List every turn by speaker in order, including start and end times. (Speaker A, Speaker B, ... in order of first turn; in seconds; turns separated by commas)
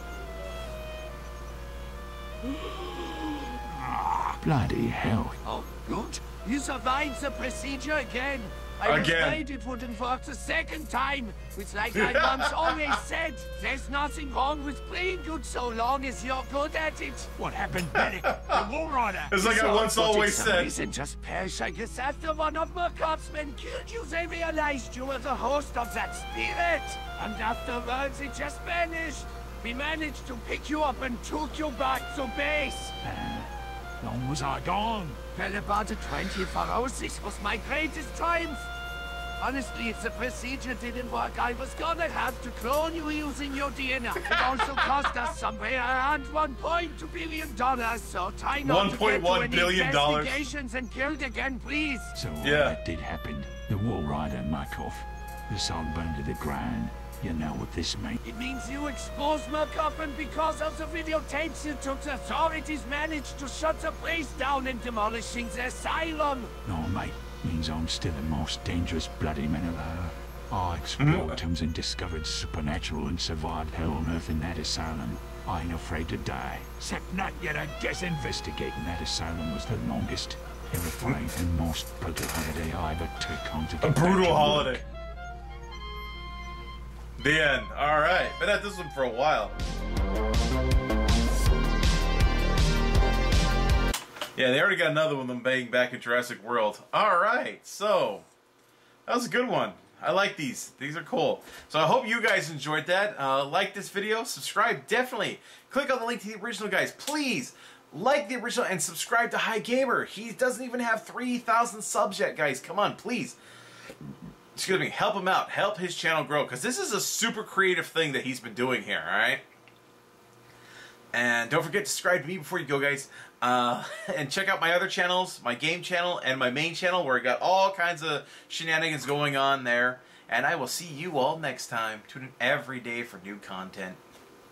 Speaker A: 4.0-5.4, Speaker B: 5.4-17.3, Speaker C: 8.8-9.4, Speaker C: 11.9-12.9, Speaker A: 17.4-19.0, Speaker C: 17.9-18.7, Speaker B: 18.9-32.9, Speaker C: 19.3-20.7, Speaker A: 33.0-35.2, Speaker B: 35.3-38.6, Speaker B: 39.4-52.1, Speaker C: 44.2-44.9, Speaker C: 48.6-50.4, Speaker A: 52.1-58.2, Speaker C: 52.4-52.8, Speaker B: 58.2-66.5, Speaker A: 66.6-84.8, Speaker C: 71.0-71.4, Speaker C: 83.8-84.8, Speaker C: 87.2-89.5, Speaker C: 94.3-98.2, Speaker C: 99.1-113.4, Speaker C: 114.5-119.4, Speaker C: 121.1-134.0